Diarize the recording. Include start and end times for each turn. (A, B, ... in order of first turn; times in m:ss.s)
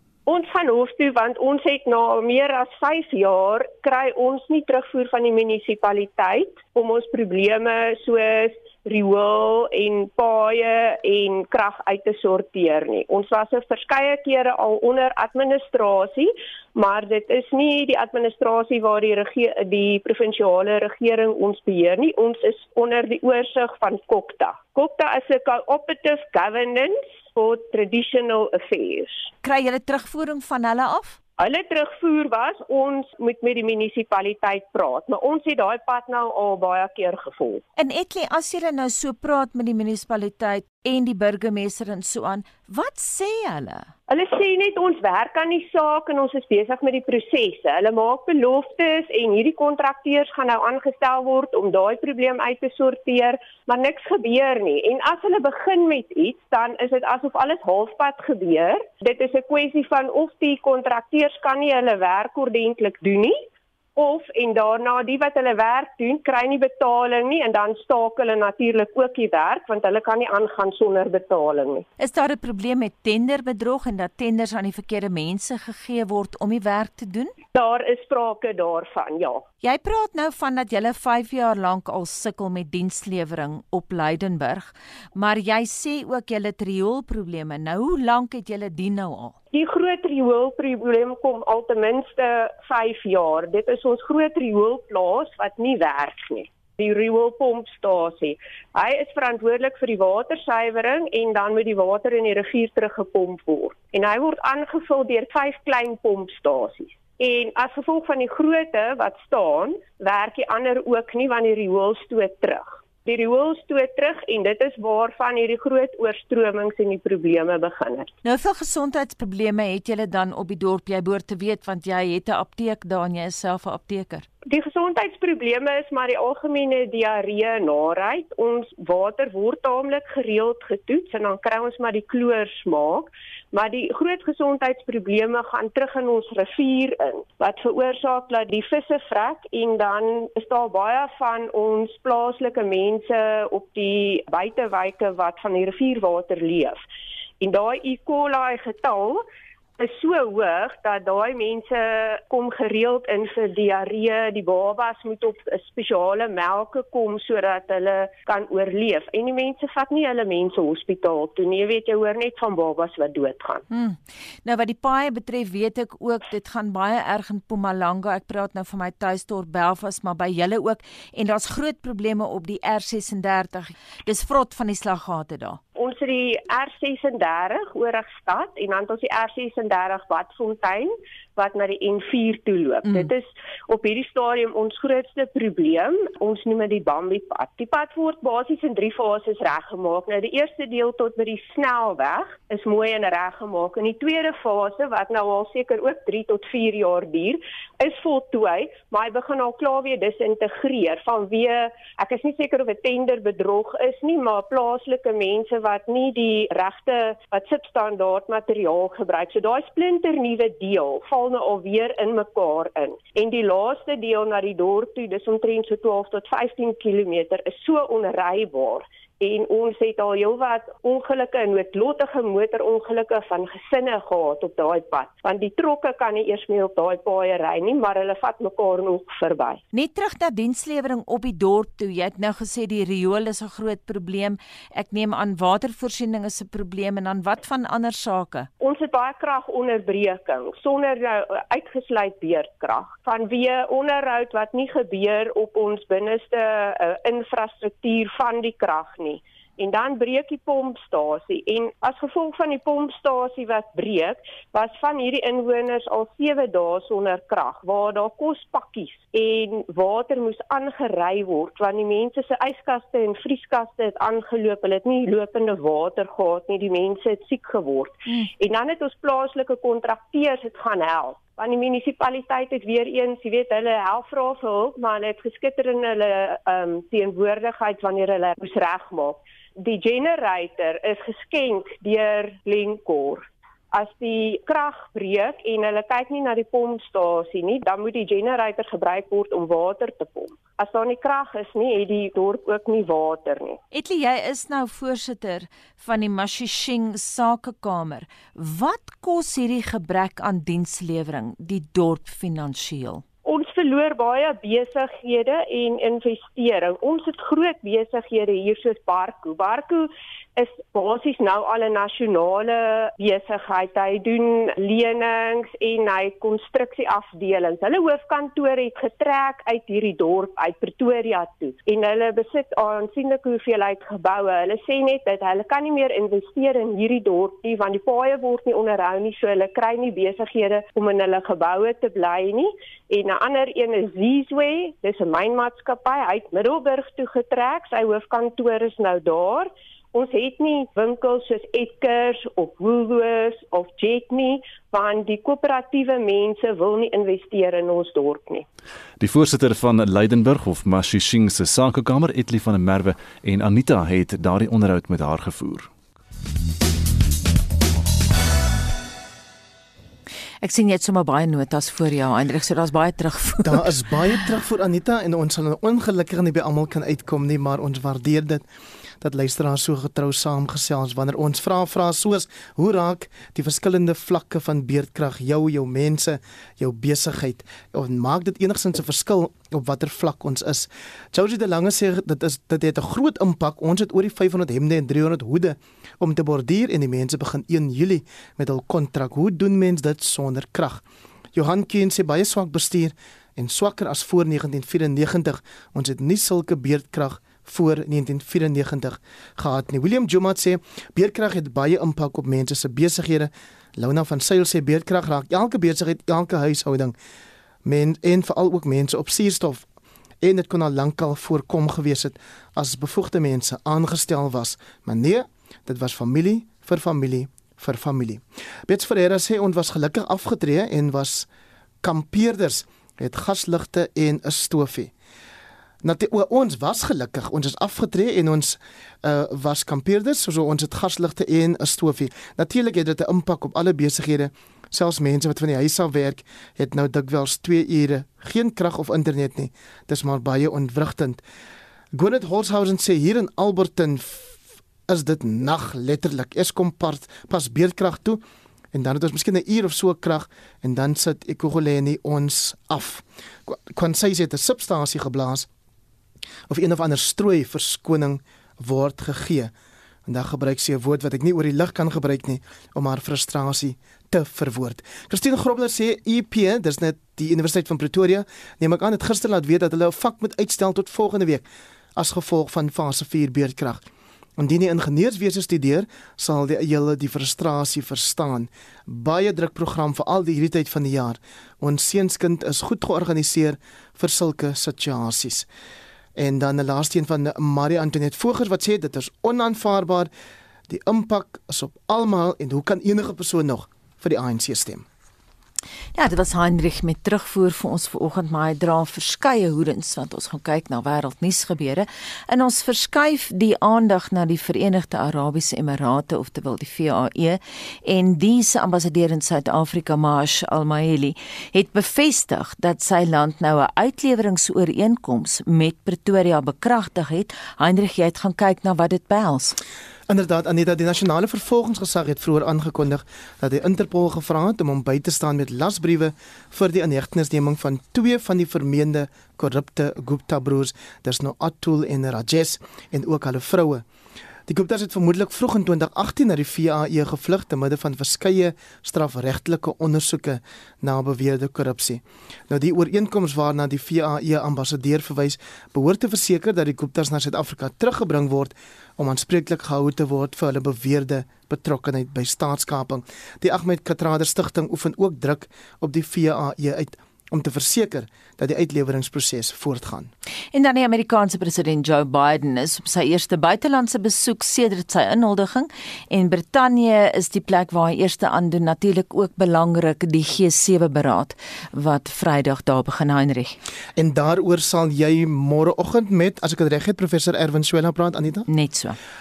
0:00.3-0:29.3 A
0:29.4-0:31.2 B
0:31.4-0:37.6 A
0:37.8-0:43.9 B
0:44.1-1:03.4 A
1:04.0-1:11.8 A
1:12.0-1:17.3 B
1:17.5-1:19.4 A
1:19.6-1:29.4 B
1:29.5-1:58.1 A
1:58.2-2:04.3 B
2:04.5-2:26.8 A
2:27.4-2:29.2 A
2:29.8-2:43.6 A
2:43.7-2:55.6 B
2:55.8-3:49.6 A
3:49.7-3:58.5 B
3:58.6-4:53.6 A
4:53.7-5:03.0 B
5:03.2-5:48.5 A
5:49.0-5:55.7 C
6:00.4-6:03.6 B
6:03.4-6:08.4 D
6:09.0-6:30.8 D
6:31.3-6:47.0 D
6:47.6-6:49.7 D
6:50.2-7:01.3 D
7:01.8-7:04.9 D
7:05.8-7:21.2 D
7:21.9-7:28.2 D
7:28.7-7:35.5 D
7:36.5-7:39.5 D
7:40.1-7:51.4 D
7:52.0-7:53.8 D
7:54.4-8:05.5 D
8:06.2-8:10.1 D
8:10.7-8:14.9 D
8:16.0-8:39.6 B
8:40.1-8:53.8 D
8:54.5-9:20.1 D
9:20.5-9:33.6 B
9:34.0-9:38.5 D
9:38.5-9:39.0 B